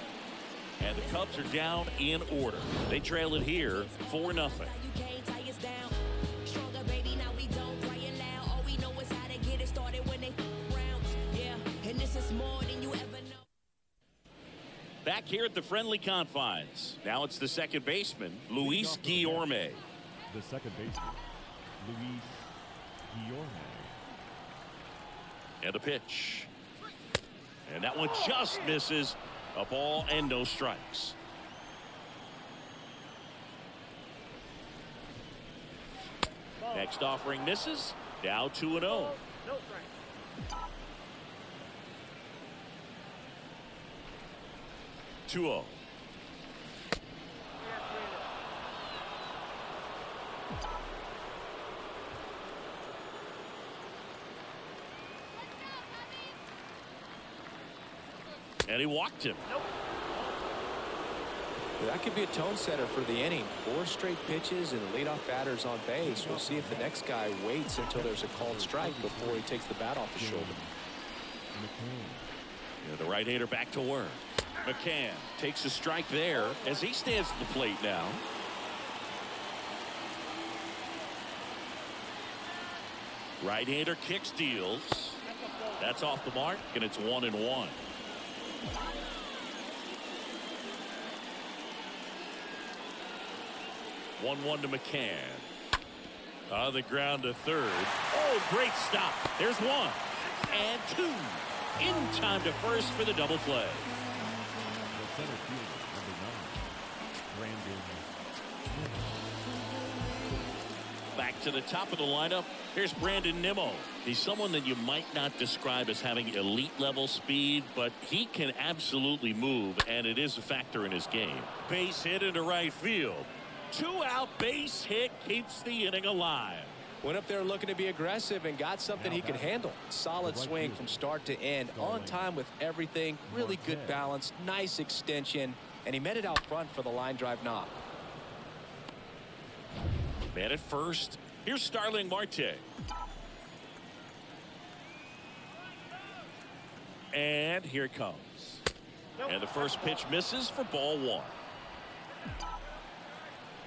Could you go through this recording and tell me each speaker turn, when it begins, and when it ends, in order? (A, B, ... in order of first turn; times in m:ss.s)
0:00.8-0:04.8 A
0:01.0-0:03.0 B
0:03.5-0:13.4 B
0:15.0-0:19.8 A
0:18.5-0:19.6 C
0:20.3-0:21.2 C
0:21.8-0:22.5 C
0:23.1-0:24.0 C
0:25.6-0:26.5 A
0:27.7-0:31.2 A
0:36.6-0:39.3 A
0:45.3-0:45.8 A
0:58.7-0:59.5 A
1:01.8-1:10.6 D
1:06.0-1:07.0 C
1:07.9-1:09.5 C
1:10.1-1:10.7 C
1:11.5-1:12.3 C
1:12.8-1:18.2 A
1:23.4-1:27.8 A
1:34.2-1:35.5 A
1:36.5-1:43.9 A
1:44.9-1:46.7 C
1:47.3-1:48.1 C
1:48.7-1:49.0 C
1:51.2-2:06.8 A
2:07.0-2:17.7 D
2:08.9-2:11.1 C
2:11.7-2:12.3 C
2:13.3-2:14.2 C
2:20.3-2:22.6 A
2:27.1-2:28.6 A
2:29.2-2:31.4 A